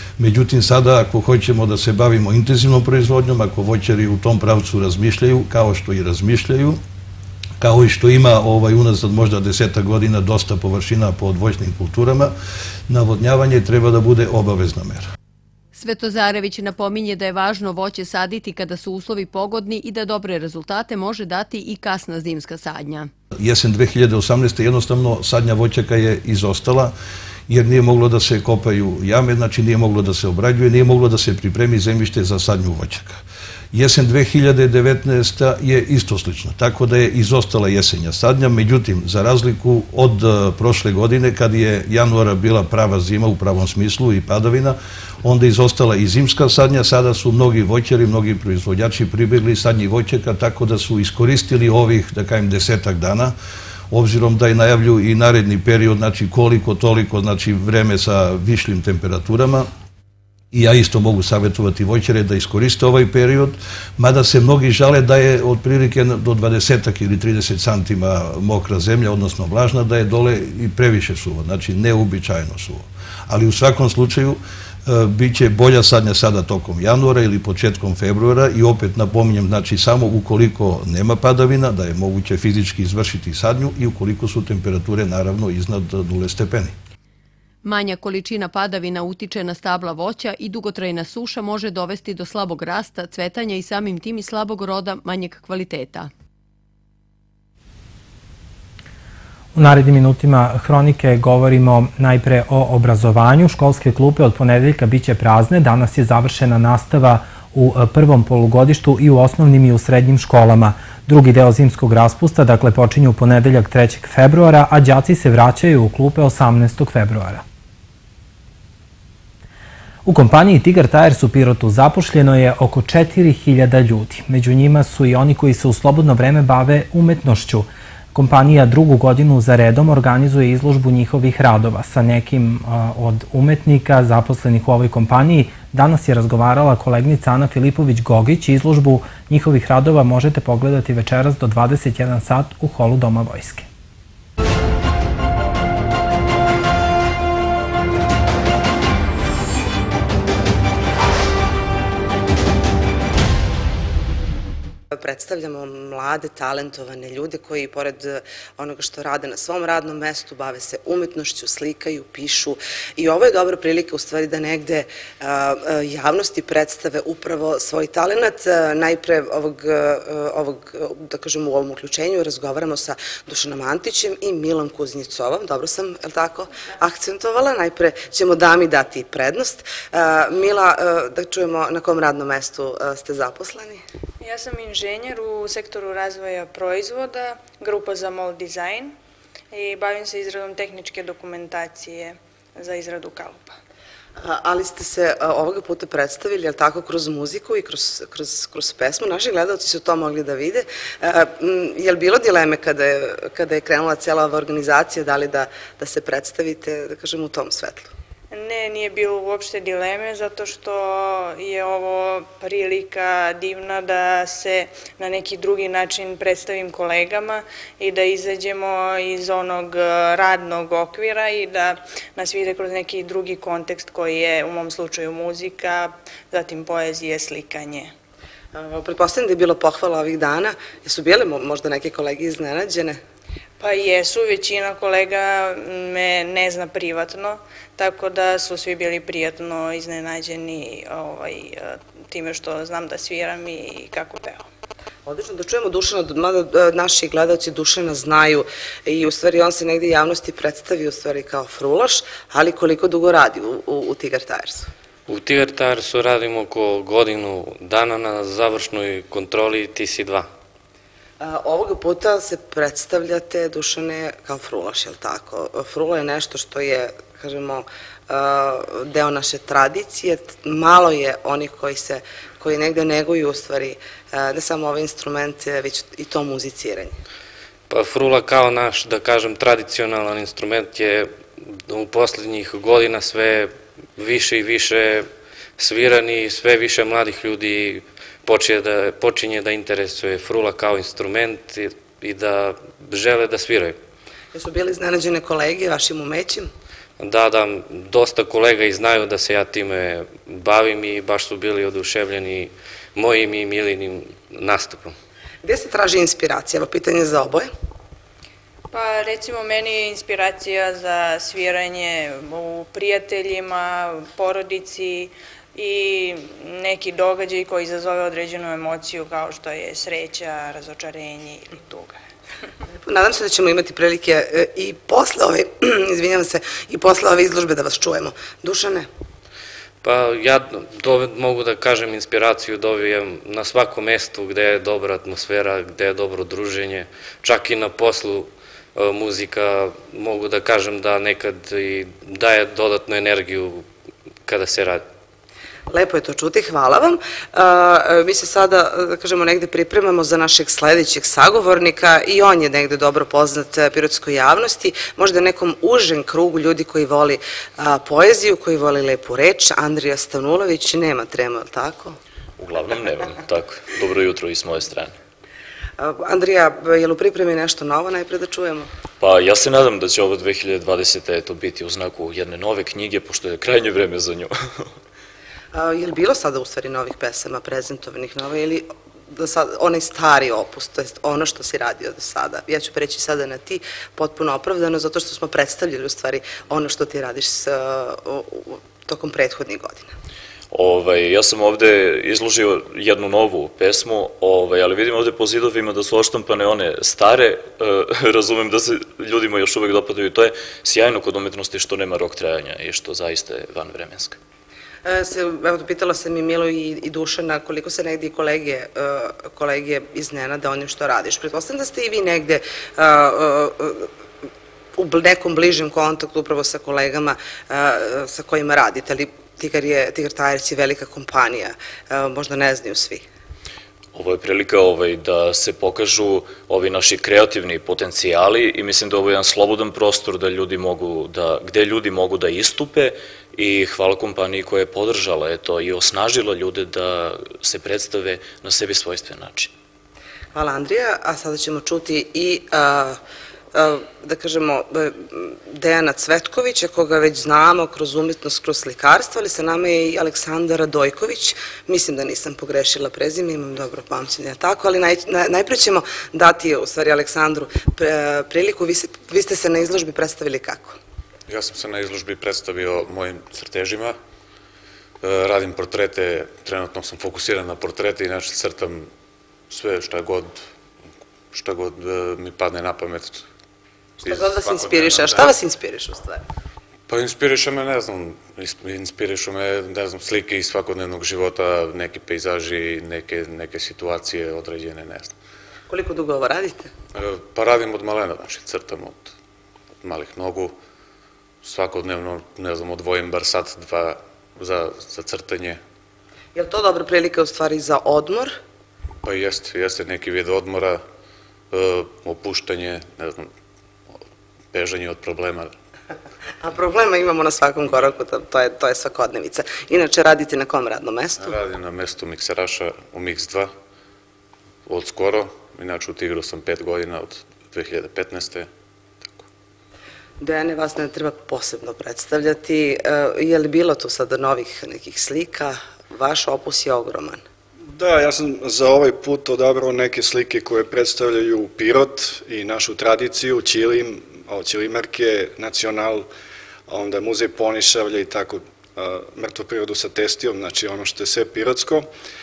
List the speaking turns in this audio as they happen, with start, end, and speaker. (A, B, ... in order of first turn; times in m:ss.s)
0:00.2-0:06.8 A
0:07.6-0:12.3 A
0:12.9-0:15.0 A
0:15.8-0:23.1 B
0:23.4-0:26.9 A
0:27.5-0:33.2 A
0:33.7-0:53.3 A
0:53.9-0:59.7 A
1:00.5-1:26.7 A
1:27.6-1:36.1 B
1:39.6-1:57.4 C
2:00.0-2:23.7 C
2:34.9-3:03.8 D
3:04.2-3:09.0 E
3:09.5-3:13.6 E
3:14.2-3:27.9 D
3:28.3-3:47.9 E
3:48.5-3:53.0 D
3:53.6-4:04.5 E
4:05.1-4:14.7 D
4:15.1-4:20.3 F
4:21.2-4:37.0 D
4:37.7-4:53.8 F
4:54.3-4:56.5 D
4:57.0-5:05.0 F
5:05.4-5:07.5 D
5:08.7-5:22.0 E
5:22.8-5:28.9 D
5:29.8-5:43.7 F
5:44.3-5:44.8 F
5:45.7-6:02.0 D
6:02.4-6:05.0 G
6:05.8-6:08.7 D
6:09.0-6:14.7 G
6:15.5-6:29.9 D
6:30.5-6:44.2 G
6:44.8-6:53.9 D
6:54.8-7:03.0 D
7:04.0-7:19.5 G
7:20.3-7:23.0 D
7:23.5-7:40.8 D
7:41.3-7:44.0 H
7:45.0-7:48.9 H
7:49.5-7:50.4 H
7:51.3-7:53.3 H
7:54.0-7:56.2 D
7:54.0-7:55.3 H
7:56.9-8:05.1 H
8:05.7-8:06.7 D
8:06.9-8:09.1 H
8:09.8-8:10.6 H
8:11.4-8:15.6 H
8:16.4-8:18.3 D
8:19.0-8:20.8 H
8:21.5-8:23.3 H
8:24.5-8:25.5 H
8:26.4-8:31.3 D
8:31.2-8:33.5 H
8:34.7-8:38.5 H
8:40.2-8:47.2 D
8:47.7-8:56.1 I
8:56.7-9:01.9 I